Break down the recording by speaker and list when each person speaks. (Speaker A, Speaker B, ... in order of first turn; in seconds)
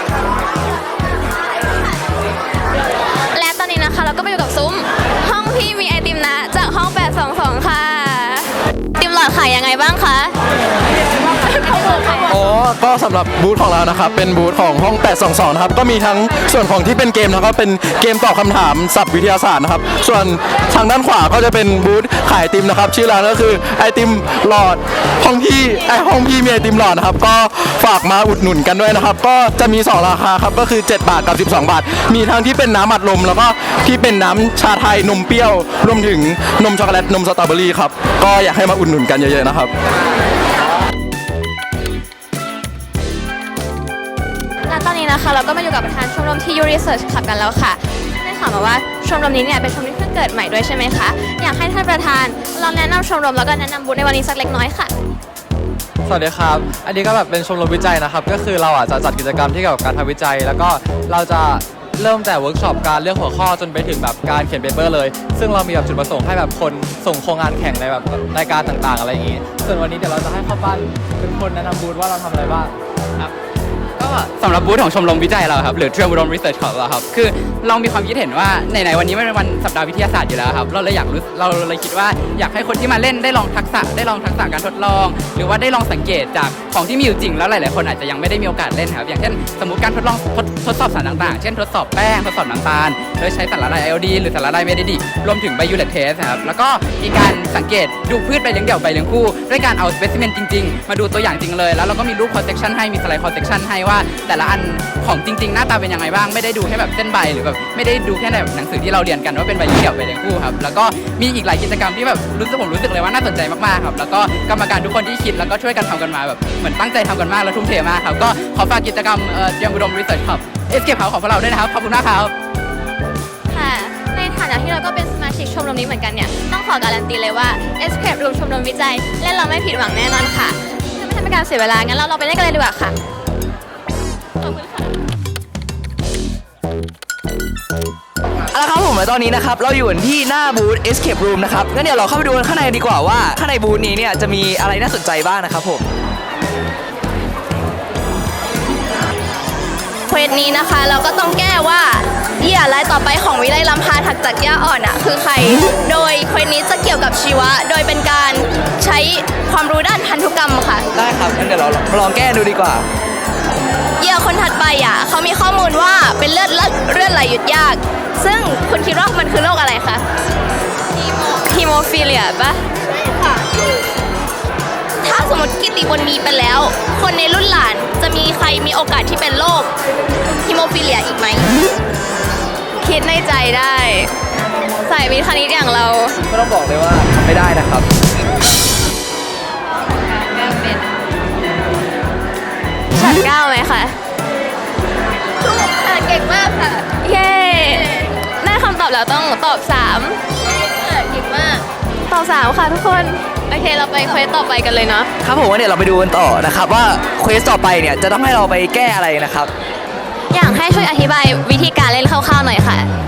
Speaker A: 3.3-10.4, 11.4-12.3, 44.7-54.9, 123.5-133.0, 134.4-134.8, 171.3-172.6, 182.8-184.1, 184.9-186.2, 190.0-190.8, 192.9-194.0, 195.6-200.2, 201.4-205.1, 210.3-212.9
Speaker B: 12.3-39.7
Speaker C: 56.1-72.7
Speaker D: 74.0-122.3
Speaker E: 138.5-145.9, 160.9-162.8, 186.2-187.9, 205.2-209.5
Speaker F: 150.1-160.9, 164.0-170.0, 175.0-179.7, 180.5-181.5